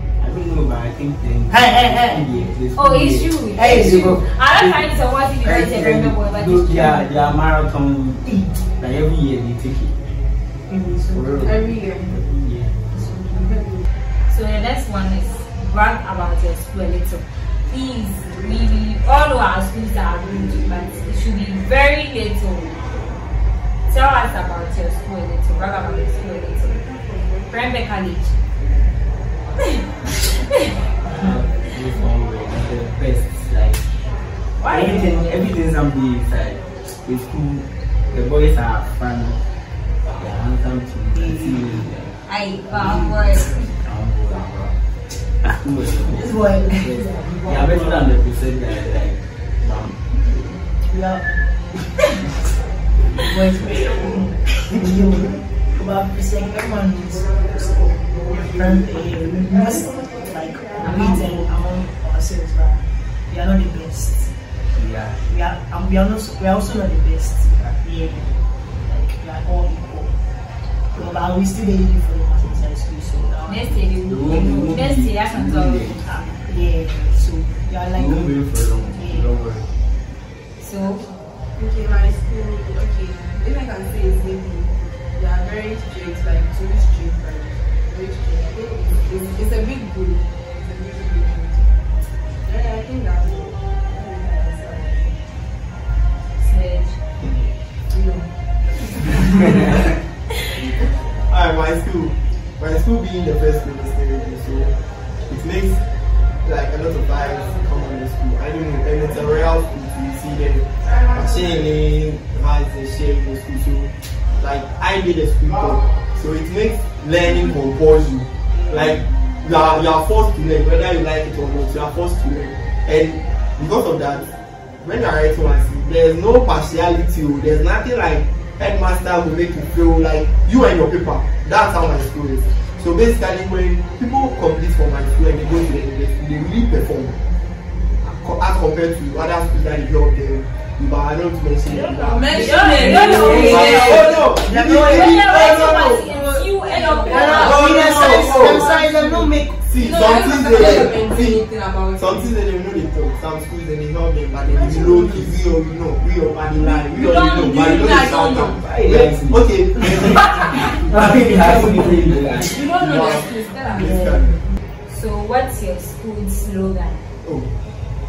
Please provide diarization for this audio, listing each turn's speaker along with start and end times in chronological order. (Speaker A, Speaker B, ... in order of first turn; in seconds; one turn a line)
Speaker A: 0.2-10.1
Speaker B: 1.5-2.2
Speaker C: 2.7-7.3
Speaker B: 3.5-4.1
Speaker B: 8.2-8.6
Speaker B: 10.7-11.6
Speaker A: 11.1-12.7
Speaker D: 11.4-12.1
Speaker C: 12.9-13.6
Speaker D: 13.4-13.8
Speaker C: 14.3-23.1
Speaker C: 23.9-26.8
Speaker C: 27.5-28.3
Speaker A: 31.1-39.4
Speaker C: 34.6-35.3
Speaker B: 34.7-35.3
Speaker A: 40.1-42.1
Speaker B: 41.1-41.8
Speaker C: 42.3-43.6
Speaker A: 42.7-44.8
Speaker B: 42.8-43.4
Speaker A: 45.4-50.1
Speaker B: 46.0-48.1
Speaker B: 50.8-51.7
Speaker B: 53.1-64.3
Speaker A: 64.7-65.2
Speaker B: 65.2-70.1
Speaker B: 70.9-73.9
Speaker C: 73.5-76.4
Speaker A: 74.1-76.2
Speaker B: 76.3-79.3
Speaker A: 77.9-79.7
Speaker C: 80.6-81.0
Speaker D: 81.5-91.8
Speaker D: 92.4-95.2
Speaker C: 96.4-97.0
Speaker E: 100.6-105.9
Speaker E: 106.4-137.2
Speaker D: 118.6-119.0
Speaker E: 138.0-146.1
Speaker D: 141.7-144.2
Speaker C: 142.3-148.2
Speaker A: 142.8-144.0
Speaker B: 143.1-143.6
Speaker B: 144.3-150.8
Speaker D: 146.8-152.3
Speaker E: 147.3-148.7
Speaker E: 149.7-164.4
Speaker B: 154.5-155.3
Speaker D: 156.6-158.6
Speaker A: 157.3-162.7
Speaker D: 160.2-160.7
Speaker B: 161.1-161.8
Speaker D: 162.3-164.2
Speaker B: 163.7-164.4
Speaker C: 164.9-167.0
Speaker E: 167.2-167.5